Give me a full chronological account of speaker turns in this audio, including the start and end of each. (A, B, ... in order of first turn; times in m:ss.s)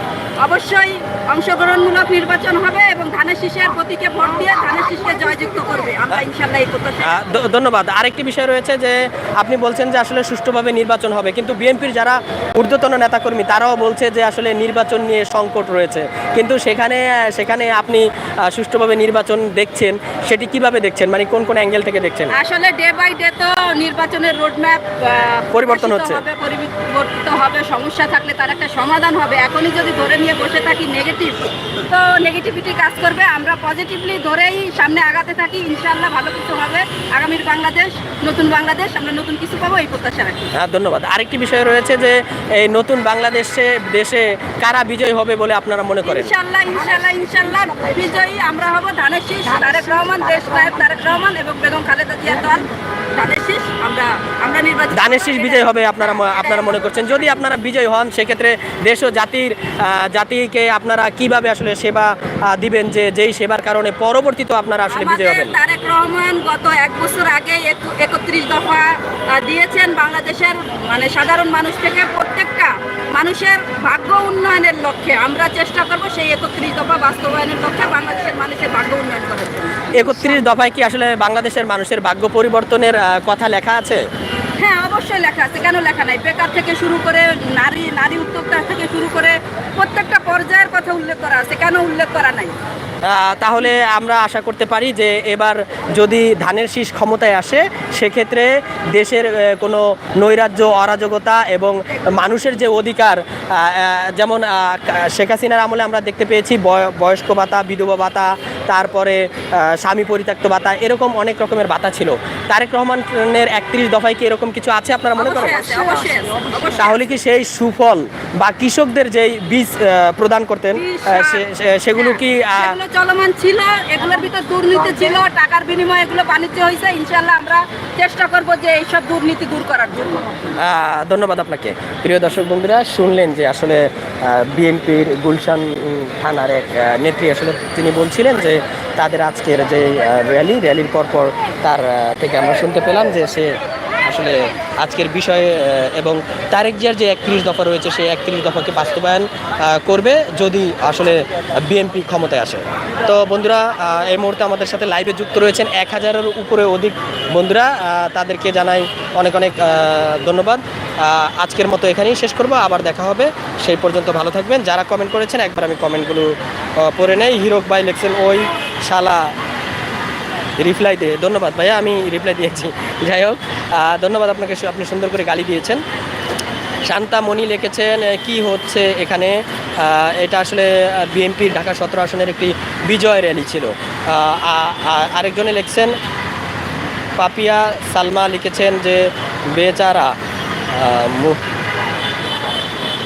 0:00.4-0:07.2 A
0:07.1-0:22.3 B
0:22.3-0:40.5 A
0:25.5-0:26.2 B
0:40.6-0:46.3 B
0:46.0-0:57.1 A
0:55.0-1:05.6 B
1:04.9-1:20.5 A
1:20.0-1:24.0 B
1:24.6-1:32.5 A
1:33.0-1:55.5 B
1:55.2-1:57.0 A
1:56.8-2:02.7 B
2:00.7-2:01.4 A
2:01.9-2:10.3 A
2:10.6-2:23.6 B
2:24.1-2:49.3 B
2:50.6-2:55.8 B
2:56.9-3:05.9 B
3:07.2-3:10.1 B
3:10.7-3:11.4 B